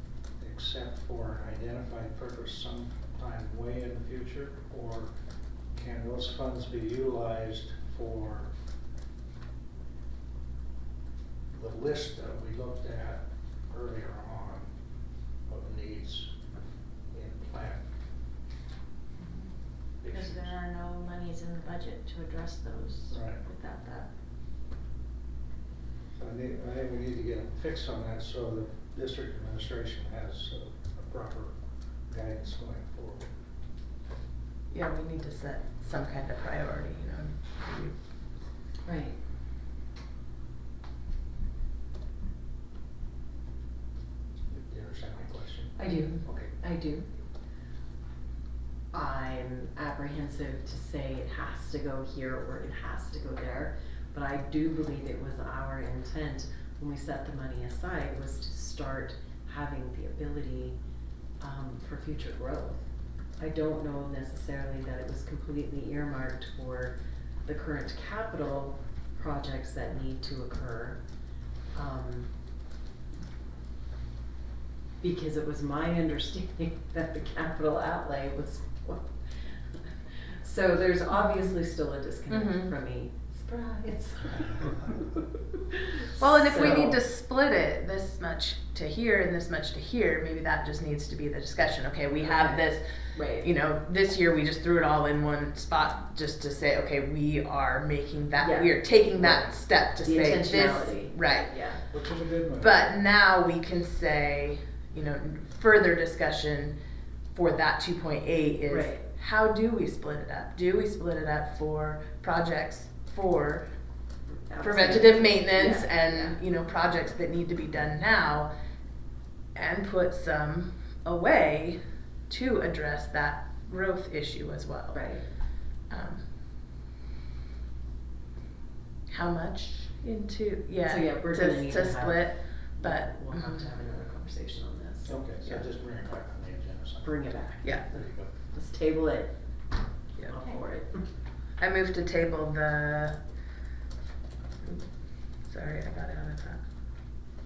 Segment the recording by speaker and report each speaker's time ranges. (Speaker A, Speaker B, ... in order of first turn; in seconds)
Speaker A: 0.4-5.1, 5.7-8.5, 11.5-14.7, 15.5-16.3, 17.1-17.8, 20.0-20.5, 23.1-23.4, 26.2-31.6, 32.1-33.3, 44.5-46.5, 101.9-102.8, 135.1-137.2, 137.9-138.3
Speaker B: 19.2-24.1
Speaker C: 34.7-38.0, 82.3-82.7, 86.2-101.5, 102.6-106.8, 107.3-113.7, 114.6-118.5, 119.5-126.3, 129.1-133.5, 141.6-143.2, 144.6-146.6
Speaker D: 38.9-39.2, 45.8-47.0, 48.9-60.8, 61.4-71.0, 71.7-72.3, 75.0-85.1, 86.2-87.0, 92.2-93.5, 98.4-101.8, 108.7-109.0, 114.5-116.4, 124.9-125.3, 130.8-135.2, 137.0-139.3, 140.2-141.1